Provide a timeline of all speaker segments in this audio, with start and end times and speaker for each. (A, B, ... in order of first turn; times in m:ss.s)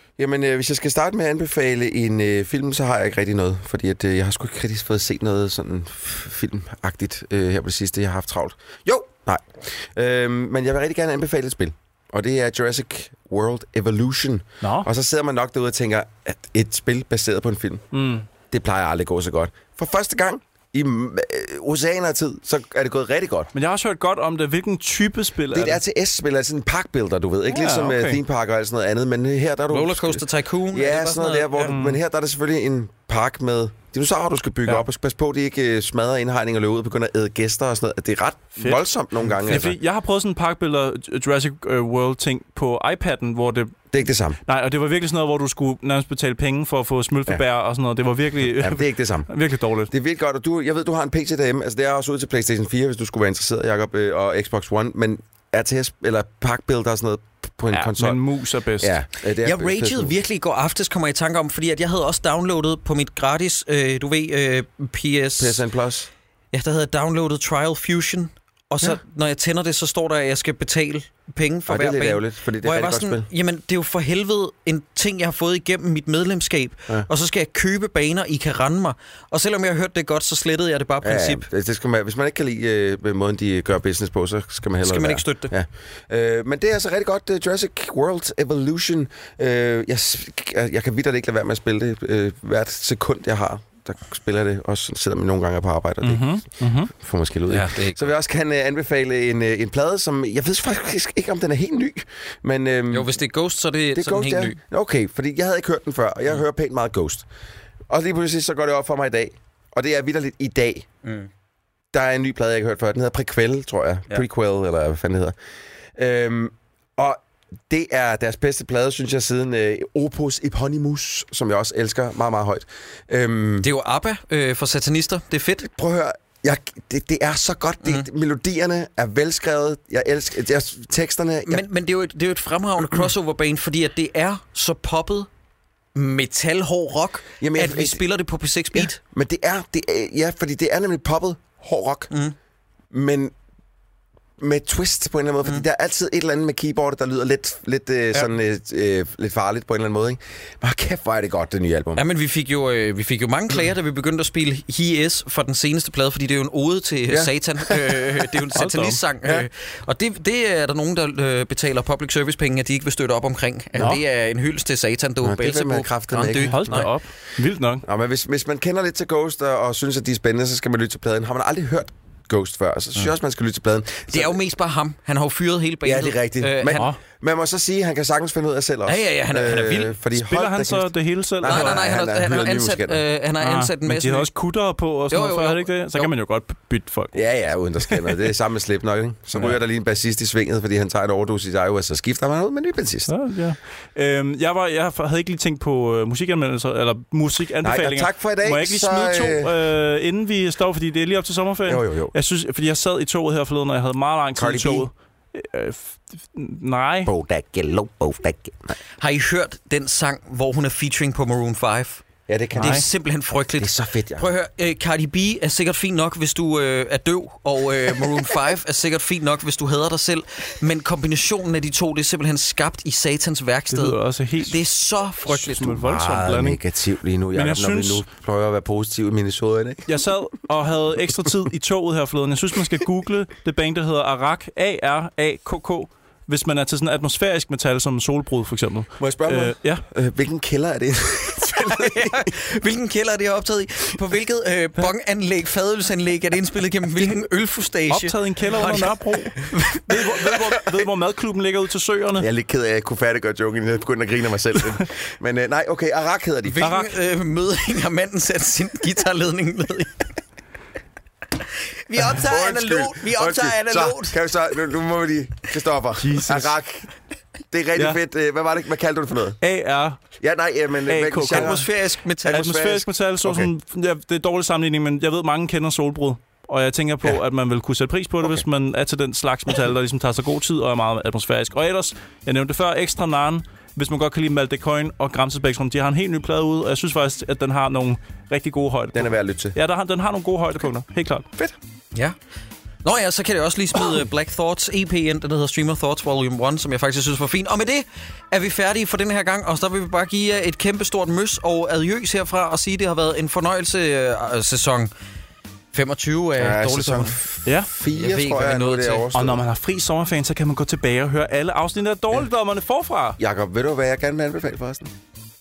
0:00.2-0:17.8 A
0:14.6-0:14.9 B
0:17.9-0:18.3 B
0:18.5-0:23.5 A
0:23.5-0:25.8 B
0:25.5-0:39.8 A
0:27.5-0:28.2 B
0:29.7-0:31.7 C
0:31.6-0:32.0 B
0:39.3-0:43.8 B
0:43.9-0:44.4 A
0:44.4-0:49.9 B
0:48.4-0:49.3 A
0:49.9-0:58.2 A
0:57.7-0:59.0 B
0:58.8-1:00.2 A
0:59.4-1:05.6 C
1:05.4-1:06.1 A
1:06.5-1:21.4 C
1:11.7-1:13.3 A
1:21.0-1:36.2 A
1:24.8-1:25.5 C
1:36.0-1:36.9 B
1:36.9-1:43.2 A
1:37.5-1:38.1 C
1:42.9-1:44.6 C
1:43.9-1:47.2 A
1:47.9-1:50.9 A
1:51.0-1:51.3 C
1:51.9-1:55.4 A
1:55.9-2:03.7 A
2:03.6-2:05.7 C
2:05.6-2:11.6 A
2:11.5-2:15.3 C
2:15.9-2:19.0 C
2:17.4-2:18.0 A
2:18.8-2:22.1 A
2:22.1-2:22.3 C
2:22.9-2:23.3 A
2:24.4-2:32.0 A
2:31.9-2:46.9 C
2:37.1-2:38.1 A
2:38.5-2:39.0 B
2:43.8-2:44.0 B
2:45.2-2:46.9 A
2:46.4-2:47.8 B
2:47.8-2:54.4 A
2:54.1-2:56.9 C
2:55.8-3:03.0 A
2:58.8-2:59.9 C
3:00.1-3:01.9 B
3:01.4-3:04.3 C
3:03.4-3:07.3 B
3:05.1-3:06.1 C
3:07.1-3:13.1 A
3:07.9-3:08.2 B
3:13.1-3:27.1 B
3:17.6-3:19.5 A
3:21.6-3:22.1 A
3:24.3-3:24.9 A
3:27.0-3:28.7 A
3:29.0-3:32.0 C
3:32.3-3:32.9 A
3:32.5-3:45.8 C
3:32.6-3:32.8 B
3:33.6-3:34.3 A
3:43.7-3:44.6 B
3:45.2-3:46.6 B
3:45.6-3:49.8 A
3:47.3-3:48.0 B
3:49.9-3:59.8 B
3:59.0-4:02.3 A
4:01.6-4:10.2 C
4:07.9-4:12.3 B
4:12.2-4:16.6 A
4:16.4-4:20.0 C
4:16.6-4:16.9 B
4:21.8-4:24.2 C
4:22.0-4:26.9 A
4:26.0-4:26.5 B
4:27.5-4:29.4 A
4:29.4-4:30.0 B
4:30.2-4:31.7 A
4:30.9-4:31.7 B
4:31.2-4:32.6 C
4:32.2-4:33.5 A
4:32.3-4:51.4 B
4:48.9-4:49.5 A
4:52.8-5:04.9 C
5:05.7-5:07.2 C
5:06.4-5:09.4 A
5:07.9-5:09.0 C
5:09.1-5:13.2 B
5:13.2-5:14.9 A